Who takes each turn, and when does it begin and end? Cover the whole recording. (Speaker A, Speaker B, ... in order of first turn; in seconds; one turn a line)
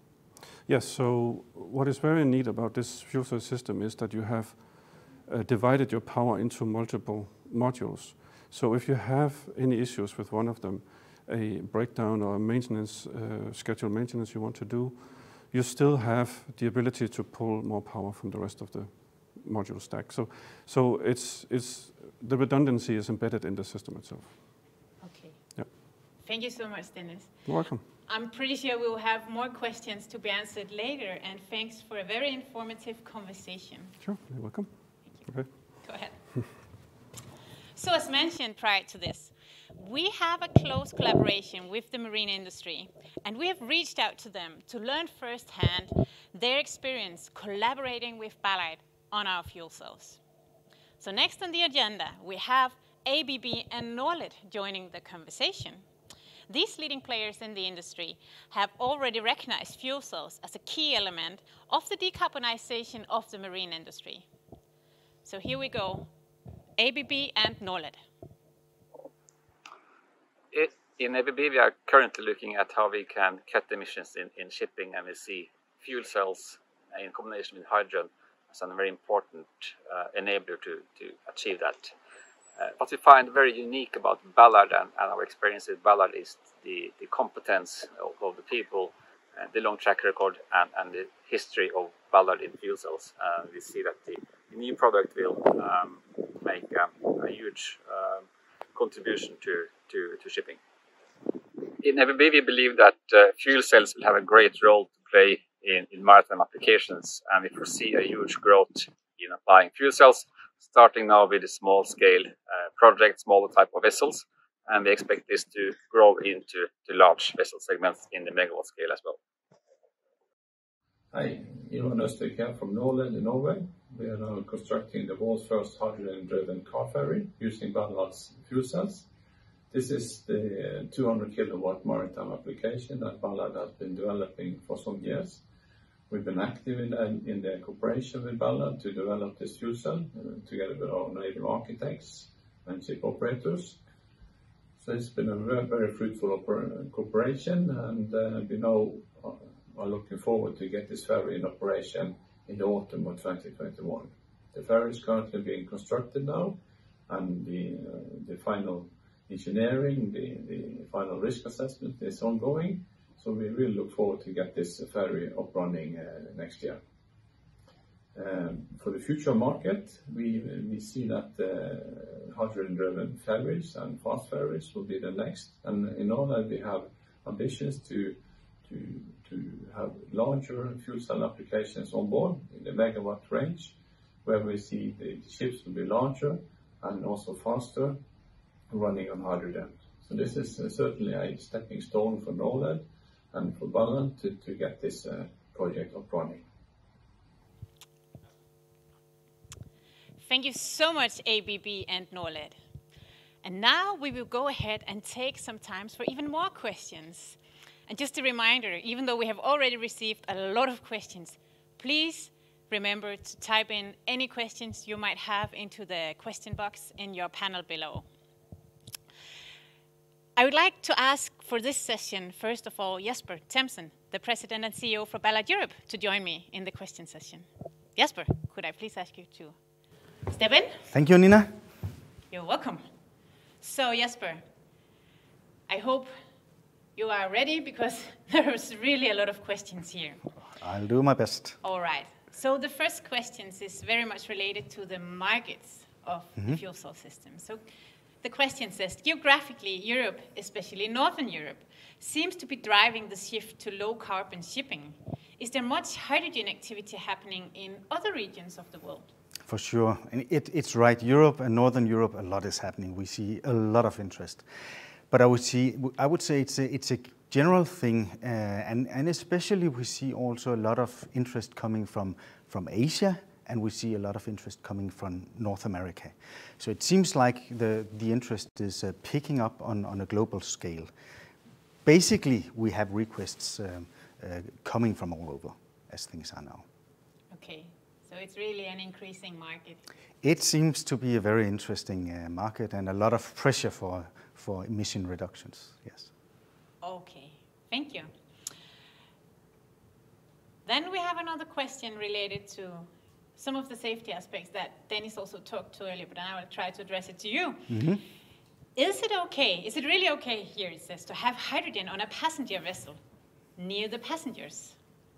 Speaker A: 0.7-24.5
Speaker B: 25.0-25.6
Speaker B: 26.2-34.0
Speaker A: 27.5-27.8
Speaker A: 34.0-36.2
Speaker B: 35.2-36.6
Speaker B: 37.8-50.2
Speaker B: 51.0-55.9
Speaker B: 56.5-64.3
Speaker B: 65.2-66.1
Speaker B: 66.8-68.0
Speaker C: 70.5-81.9
Speaker C: 82.6-100.6
Speaker C: 101.6-119.2
Speaker D: 121.1-129.1
Speaker D: 129.7-135.4
Speaker D: 136.1-143.8
Speaker D: 144.8-166.8
Speaker D: 168.2-188.0
Speaker D: 188.7-196.4
Speaker B: 200.2-202.6
Speaker B: 203.4-218.1
Speaker B: 220.4-229.6
Speaker B: 230.3-230.9
Speaker E: 230.9-231.5
Speaker B: 232.3-232.8
Speaker B: 233.6-234.4
Speaker B: 235.7-236.1
Speaker B: 237.0-240.2
Speaker E: 240.6-241.6
Speaker B: 241.6-247.6
Speaker B: 248.2-259.1
Speaker E: 259.5-264.4
Speaker E: 265.1-280.9
Speaker E: 281.9-286.6
Speaker B: 287.3-289.8
Speaker E: 290.2-296.1
Speaker B: 296.8-298.1
Speaker B: 300.7-307.8
Speaker E: 307.7-308.0
Speaker B: 308.8-313.0
Speaker B: 313.6-314.8